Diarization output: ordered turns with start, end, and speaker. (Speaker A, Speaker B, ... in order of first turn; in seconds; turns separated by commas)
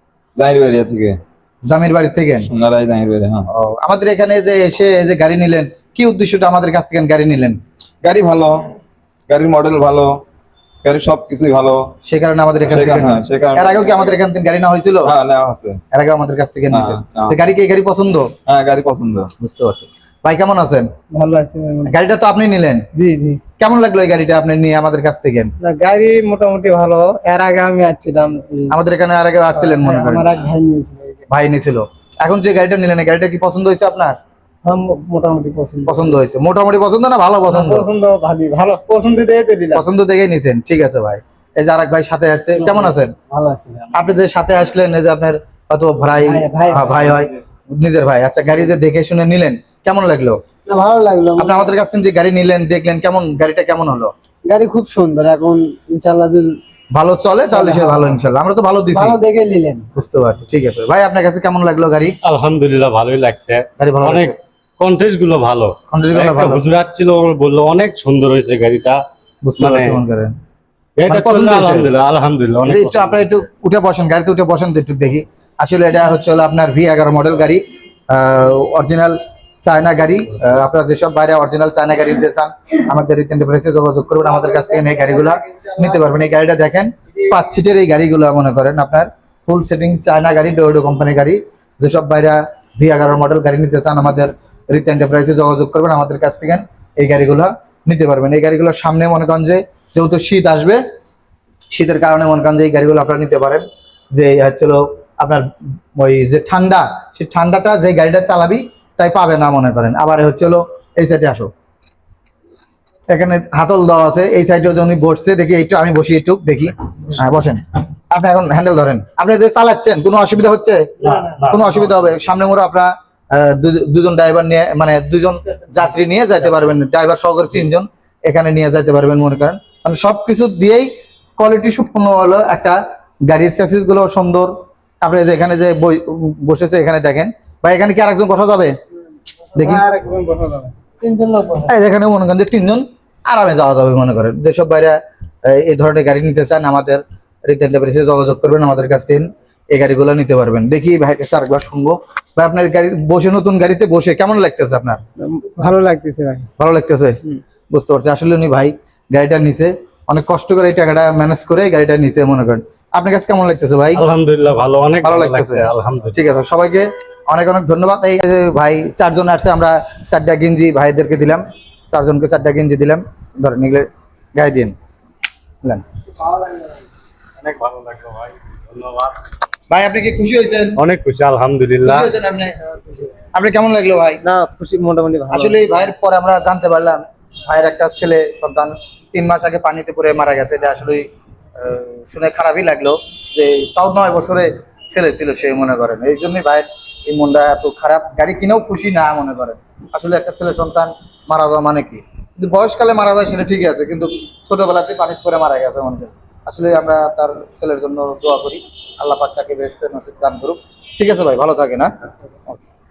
Speaker A: 0.4-1.2, Speaker B: 1.7-2.5, Speaker A: 2.5-3.5, Speaker B: 3.5-7.6, Speaker A: 8.0-10.2, Speaker A: 10.8-11.9, Speaker B: 12.0-15.1, Speaker A: 12.7-14.0, Speaker A: 15.0-15.8, Speaker B: 15.9-18.3, Speaker A: 16.7-17.4, Speaker A: 18.4-19.3, Speaker B: 19.4-20.9, Speaker C: 21.1-21.9, Speaker B: 21.8-22.9, Speaker C: 22.9-23.4, Speaker B: 23.6-25.5, Speaker C: 25.6-28.8, Speaker B: 28.7-30.3, Speaker C: 29.5-31.2, Speaker B: 31.3-34.1, Speaker C: 34.6-36.2, Speaker B: 35.9-37.9, Speaker C: 37.5-39.9, Speaker B: 39.7-43.1, Speaker C: 42.5-43.9, Speaker B: 43.9-50.4, Speaker C: 46.1-47.3, Speaker C: 50.7-51.7, Speaker B: 51.4-54.1, Speaker C: 54.4-56.6, Speaker B: 56.9-59.2, Speaker C: 57.5-58.2, Speaker C: 58.9-59.9, Speaker B: 59.9-62.1, Speaker D: 62.2-69.0, Speaker B: 63.8-64.3, Speaker B: 65.9-66.7, Speaker B: 69.4-70.3, Speaker D: 69.6-70.0, Speaker D: 71.0-73.4, Speaker B: 71.1-71.9, Speaker B: 72.6-100.8, Speaker B: 101.7-105.4, Speaker B: 106.0-111.5, Speaker B: 113.1-120.9, Speaker D: 121.0-122.1, Speaker B: 121.4-138.7, Speaker C: 139.5-141.7, Speaker B: 139.6-139.8, Speaker B: 141.6-155.0, Speaker C: 155.2-156.5, Speaker B: 156.6-164.0, Speaker D: 163.9-166.1, Speaker B: 165.0-174.7, Speaker C: 176.2-176.8, Speaker D: 177.4-179.3, Speaker B: 179.7-180.8, Speaker D: 180.8-182.1, Speaker B: 181.8-182.6, Speaker C: 182.7-183.1, Speaker B: 183.3-184.2, Speaker C: 184.2-185.6, Speaker B: 185.3-191.1, Speaker B: 191.6-211.9